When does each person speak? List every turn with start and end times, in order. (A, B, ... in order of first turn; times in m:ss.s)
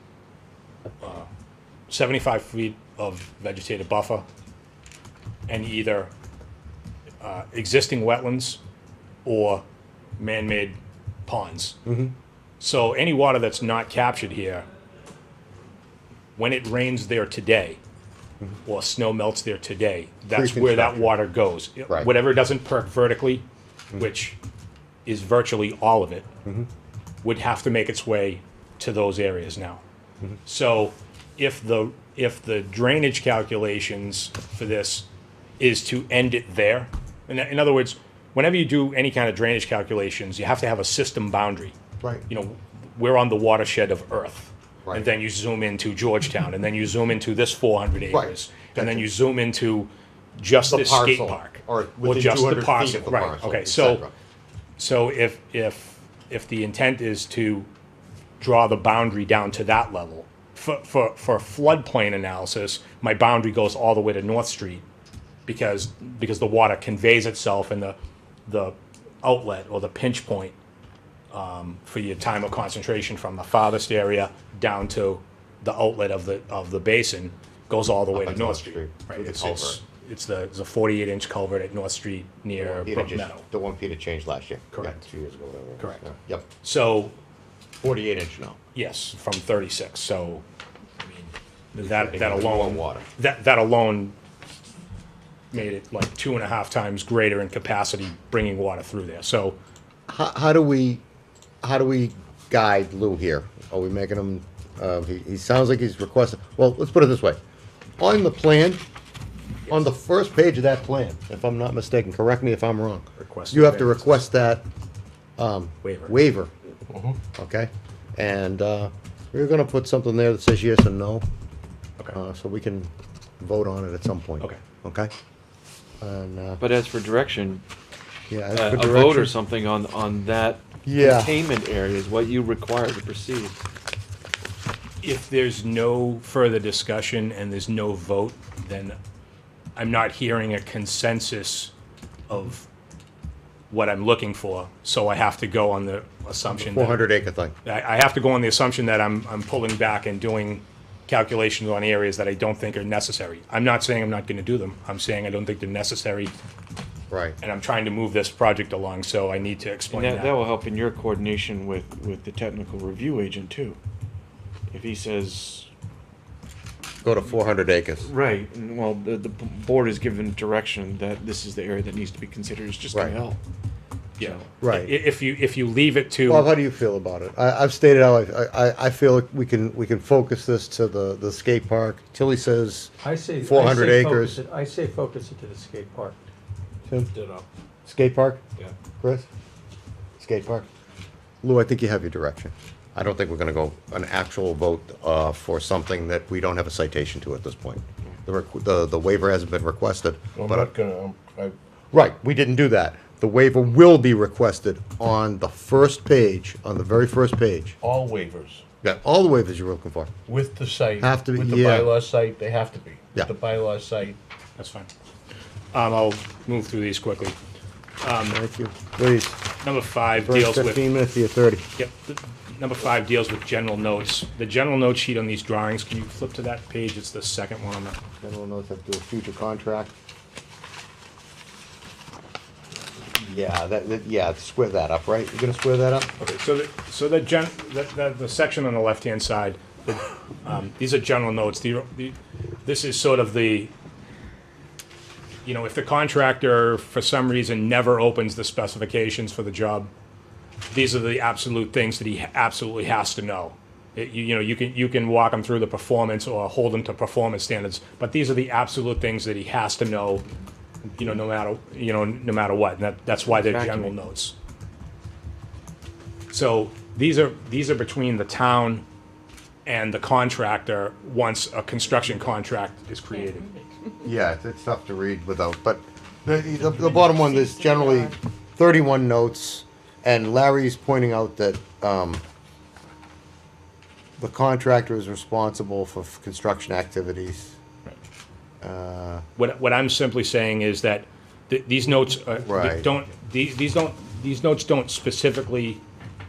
0:01.0-0:01.3 A
0:01.9-0:04.2 A
0:05.5-0:06.1 A
0:07.2-0:08.6 A
0:09.2-0:09.6 A
0:10.2-0:11.8 A
0:11.8-0:12.1 B
0:12.6-0:14.6 A
0:16.4-0:17.8 A
0:18.6-0:23.4 A
0:20.3-0:21.2 B
0:24.0-0:24.4 A
0:25.0-0:26.2 A
0:27.2-0:29.8 A
0:30.4-0:35.0 A
0:35.6-0:41.7 A
0:42.0-0:42.2 B
0:42.3-0:54.1 A
0:48.1-0:49.1 B
0:50.7-0:54.1 B
0:54.8-0:57.7 A
0:58.4-1:04.8 A
1:05.4-1:10.5 A
1:11.3-1:23.4 A
1:18.1-1:19.8 B
1:22.6-1:26.5 B
1:24.7-1:25.0 A
1:25.8-1:26.0 A
1:26.6-1:27.1 A
1:27.8-1:28.6 B
1:28.7-1:30.4 A
1:31.0-1:34.1 A
1:31.8-1:33.1 B
1:35.5-1:39.6 A
1:40.1-1:41.0 B
1:41.6-1:47.4 B
1:48.0-1:48.8 B
1:49.7-1:54.6 B
1:53.2-1:54.0 A
1:55.4-1:56.5 B
1:55.8-1:56.1 A
1:56.9-1:57.2 C
1:57.3-2:01.2 B
2:02.1-2:05.1 B
2:06.0-2:06.6 B
2:06.6-2:07.6 D
2:08.3-2:09.3 B
2:08.5-2:13.6 D
2:10.8-2:11.4 B
2:15.0-2:19.0 A
2:19.8-2:21.7 A
2:22.3-2:22.7 A
2:23.7-2:27.0 A
2:26.5-2:27.6 B
2:27.6-2:36.3 A
2:37.1-2:37.4 B
2:37.4-2:40.3 A
2:39.9-2:43.8 D
2:44.7-2:45.7 D
2:47.0-2:48.1 B
2:48.0-2:53.4 D
2:54.2-2:54.5 D
2:54.2-2:56.5 A
2:54.6-2:54.9 B
2:56.2-3:04.4 B
3:03.0-3:06.2 E
3:07.1-3:07.4 C
3:07.8-3:08.4 B
3:09.0-3:09.3 B
3:10.2-3:10.6 B
3:11.4-3:20.7 B
3:20.4-3:21.6 C
3:21.9-3:27.8 B
3:27.8-3:28.6 C
3:28.8-3:30.1 B
3:30.3-3:34.2 C
3:31.0-3:31.9 B
3:34.6-3:34.9 A
3:35.7-3:37.4 A
3:38.0-3:38.4 A
3:38.3-3:39.4 B
3:39.6-3:40.8 A
3:40.2-3:41.7 B
3:41.8-3:48.0 A
3:48.2-3:49.9 B
3:53.2-3:56.1 B
3:56.2-4:03.7 A
4:05.4-4:09.9 A
4:10.7-4:20.2 A
4:20.8-4:21.1 B
4:21.0-4:24.3 A
4:23.3-4:23.9 D
4:26.3-4:28.8 A
4:29.6-4:33.5 A
4:34.0-4:42.2 B
4:37.0-4:38.1 E
4:44.2-4:47.6 B
4:48.6-4:49.2 B
4:49.4-4:55.8 A
4:52.4-4:52.9 B